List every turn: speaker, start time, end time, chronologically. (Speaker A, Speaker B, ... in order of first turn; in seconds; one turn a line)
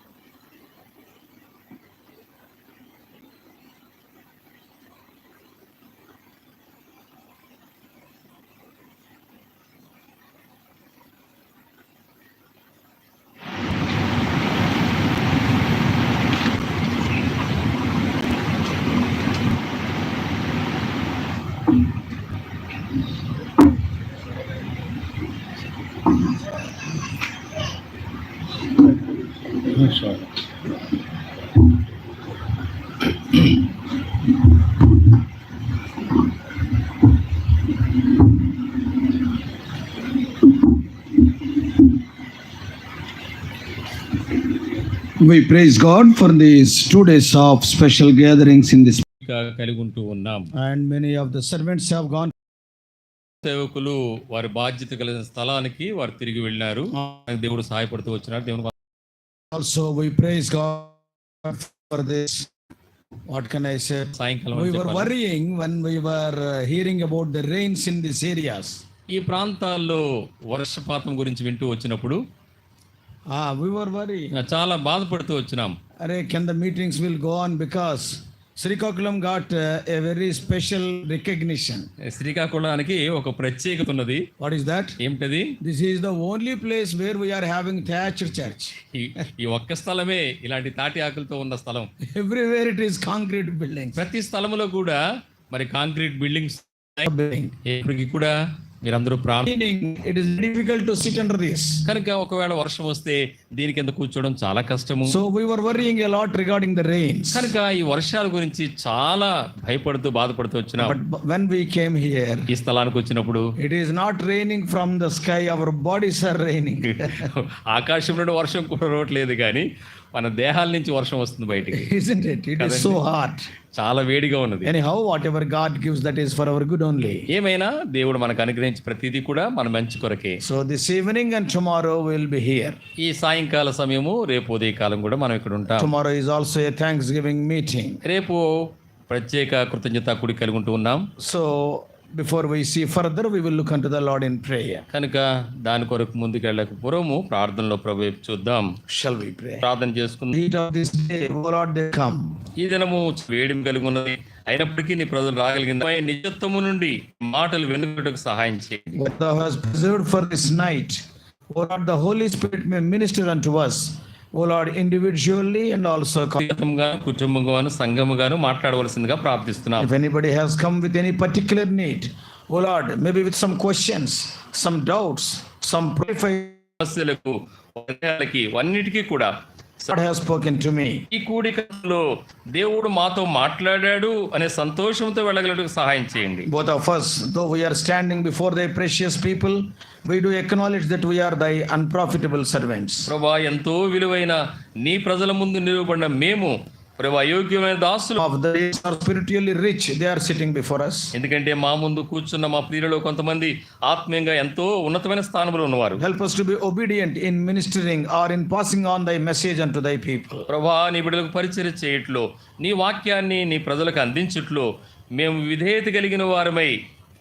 Speaker A: 45.2-49.0
Speaker B: 49.2-50.5
Speaker A: 50.5-52.3
Speaker B: 53.4-58.7
Speaker A: 59.5-62.5
Speaker A: 63.3-68.8
Speaker B: 64.2-65.1
Speaker B: 69.1-72.2
Speaker A: 73.3-74.3
Speaker B: 74.3-75.8
Speaker A: 76.0-81.9
Speaker B: 82.0-84.2
Speaker A: 84.4-85.0
Speaker B: 85.0-85.5
Speaker A: 85.6-88.8
Speaker B: 88.9-91.9
Speaker A: 92.1-94.0
Speaker B: 94.0-95.0
Speaker B: 95.5-97.0
Speaker A: 97.0-97.5
Speaker B: 97.6-99.5
Speaker A: 99.4-101.8
Speaker B: 101.8-105.2
Speaker A: 105.0-107.5
Speaker B: 107.3-111.0
Speaker A: 110.8-112.5
Speaker B: 112.5-113.5
Speaker A: 113.6-117.3
Speaker B: 116.8-121.9
Speaker A: 121.7-123.5
Speaker B: 122.6-123.0
Speaker B: 123.7-124.7
Speaker A: 124.6-127.3
Speaker B: 127.3-130.4
Speaker A: 130.4-132.8
Speaker B: 133.0-135.9
Speaker A: 135.7-138.0
Speaker B: 138.0-138.4
Speaker B: 139.1-141.1
Speaker A: 141.2-144.8
Speaker B: 144.9-148.7
Speaker A: 148.9-149.7
Speaker B: 149.6-150.4
Speaker A: 150.3-152.4
Speaker B: 152.6-158.8
Speaker A: 158.9-161.0
Speaker A: 161.5-166.4
Speaker B: 166.3-169.9
Speaker A: 169.8-176.6
Speaker B: 176.8-179.3
Speaker A: 179.9-181.0
Speaker B: 181.1-182.0
Speaker B: 182.5-186.5
Speaker A: 186.5-193.1
Speaker B: 193.1-198.2
Speaker A: 198.2-201.1
Speaker B: 201.1-206.0
Speaker A: 206.0-210.4
Speaker B: 210.5-216.7